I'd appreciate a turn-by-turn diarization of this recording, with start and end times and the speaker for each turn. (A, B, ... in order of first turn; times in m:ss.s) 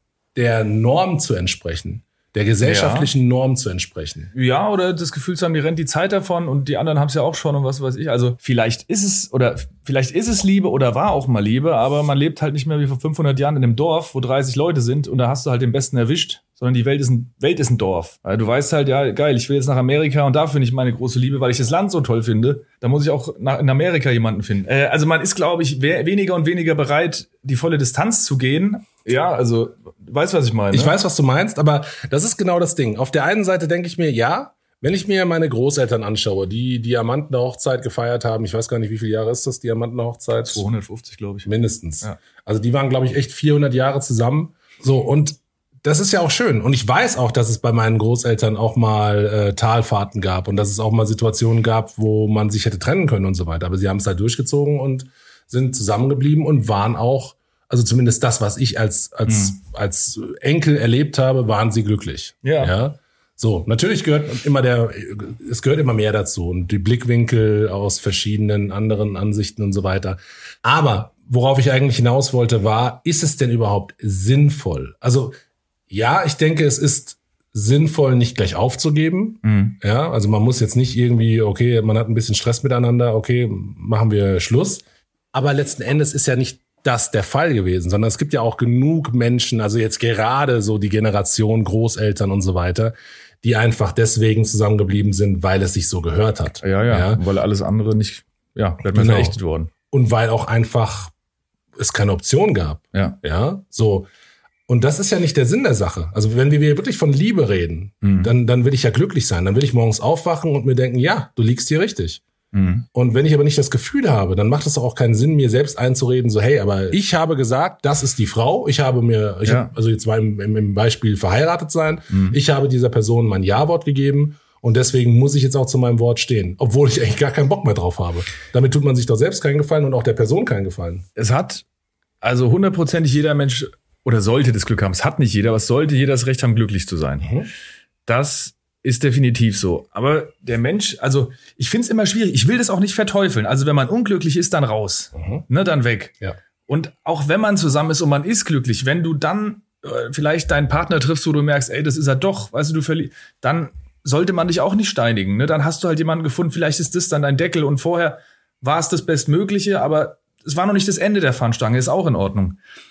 0:00.4-0:04.3 A
0:02.6-0:03.1 B
0:04.3-0:30.9 B
0:30.7-0:40.6 A
0:40.4-0:41.5 B
0:41.4-1:15.4 A
0:59.3-0:59.5 B
1:02.4-1:02.7 B
1:15.9-1:37.2 A
1:19.4-1:19.8 B
1:36.6-1:39.7 B
1:38.9-1:39.4 A
1:39.9-1:41.1 A
1:41.8-1:44.1 A
1:44.7-1:52.2 A
1:48.0-1:48.3 B
1:52.5-1:52.9 B
1:52.9-2:11.0 A
1:59.4-1:59.7 B
2:02.1-2:02.4 B
2:11.2-2:11.6 B
2:12.2-2:17.3 B
2:17.2-2:17.5 A
2:18.1-2:42.6 B
2:25.2-2:25.5 A